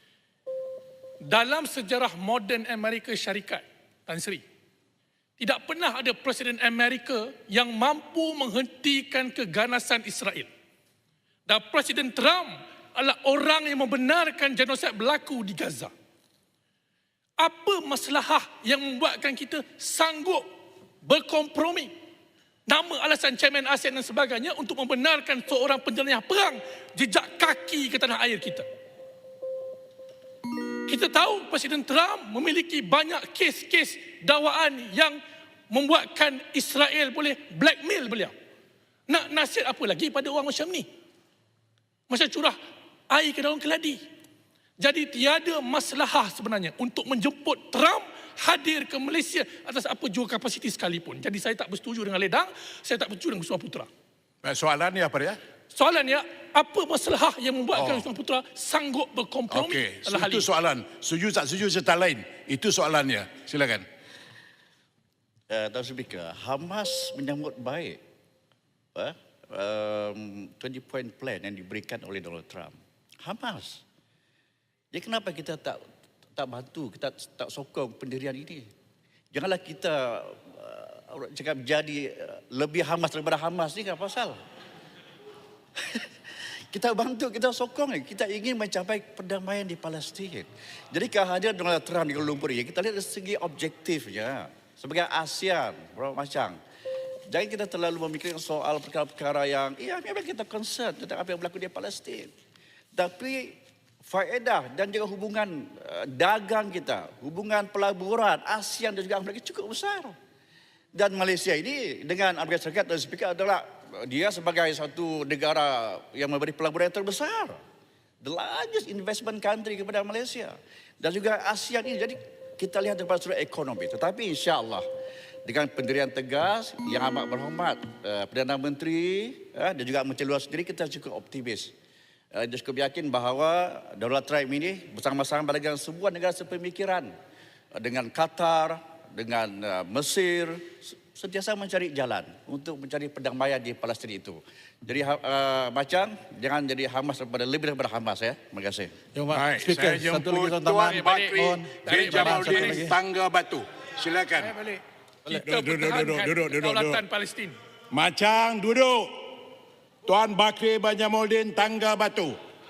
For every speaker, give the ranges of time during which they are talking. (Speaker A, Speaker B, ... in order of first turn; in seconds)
Speaker A: 1.2-4.4, 5.4-10.5, 11.5-15.9, 17.4-20.4, 21.0-21.9, 22.7-28.6, 30.9-35.2, 35.7-38.3, 39.1-40.9, 42.1-42.6, 43.1-44.0, 44.8-53.9, 55.7-60.5, 150.8-152.9, 154.4-157.6
Speaker B: 54.4-55.4, 57.7-58.0, 59.5-63.8, 149.3-154.5, 155.3-157.0, 157.9-159.1, 160.1-162.4
Speaker C: 65.5-68.0, 68.9-73.8, 74.9-75.8, 76.3-78.7, 79.3-84.4, 85.8-86.1, 86.7-96.6, 97.3-102.3, 102.9-110.1, 110.9-117.6, 118.2-124.8, 125.4-131.7, 132.3-137.1, 137.7-148.9
Speaker D: 149.1-152.9